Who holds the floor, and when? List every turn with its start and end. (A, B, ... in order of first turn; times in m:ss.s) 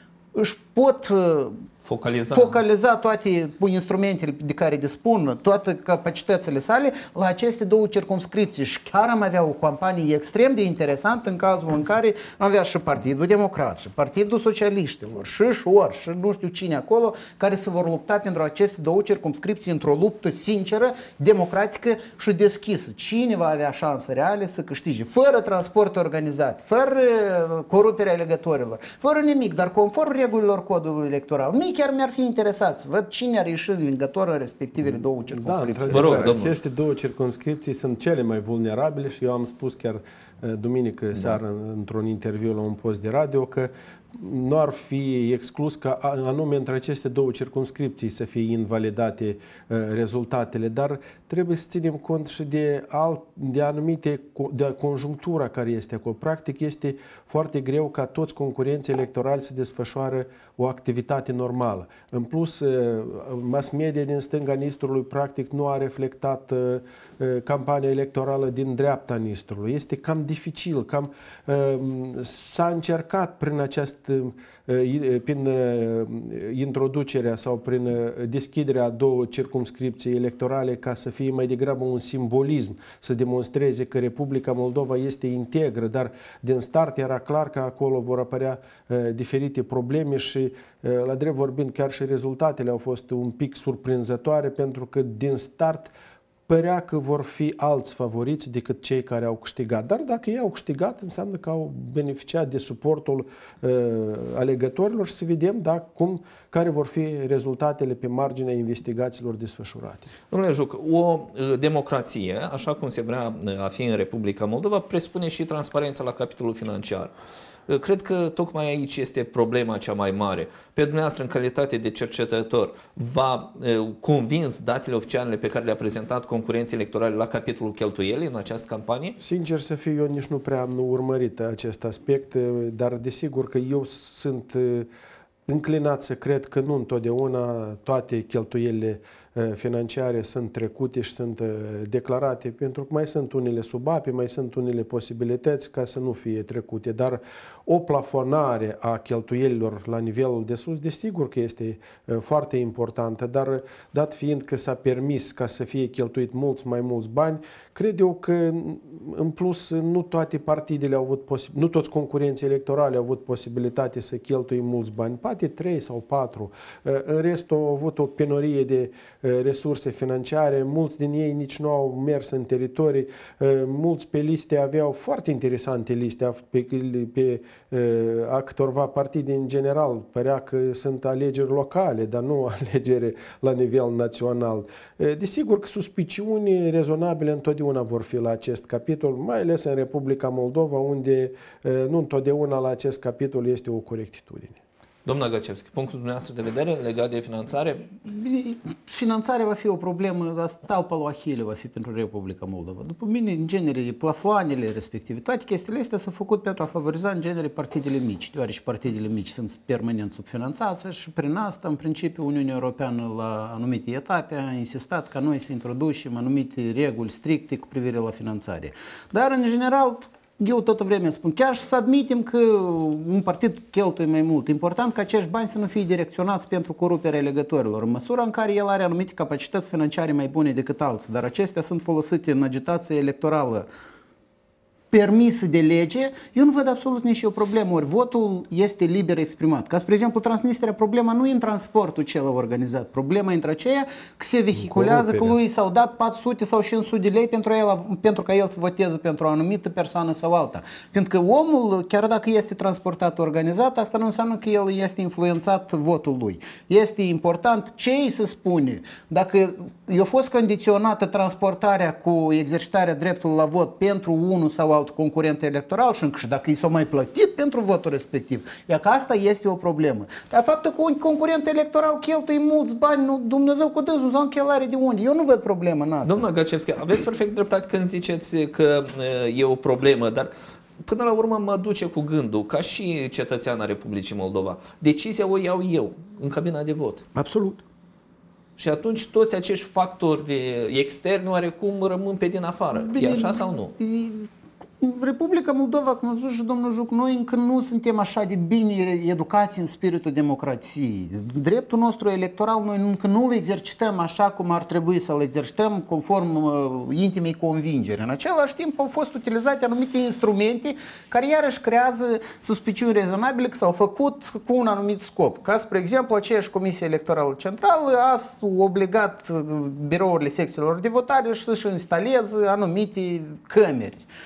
0:00.3-0:01.6 A
0:01.8-0:02.6 B
0:02.3-0:36.4 A
0:35.3-1:35.9 C
0:35.9-0:36.6 B
1:36.5-1:50.1 C
1:50.3-1:57.1 B
1:57.7-2:09.2 B
2:09.2-2:14.9 C
2:15.5-3:14.6 C
3:15.0-3:17.9 B
3:18.1-3:53.7 A
3:54.9-4:36.3 A
4:04.6-4:05.4 C
4:36.0-4:40.3 B
4:40.8-4:47.0 B
4:47.2-4:47.6 A
4:48.6-4:53.8 B
4:52.8-5:24.1 A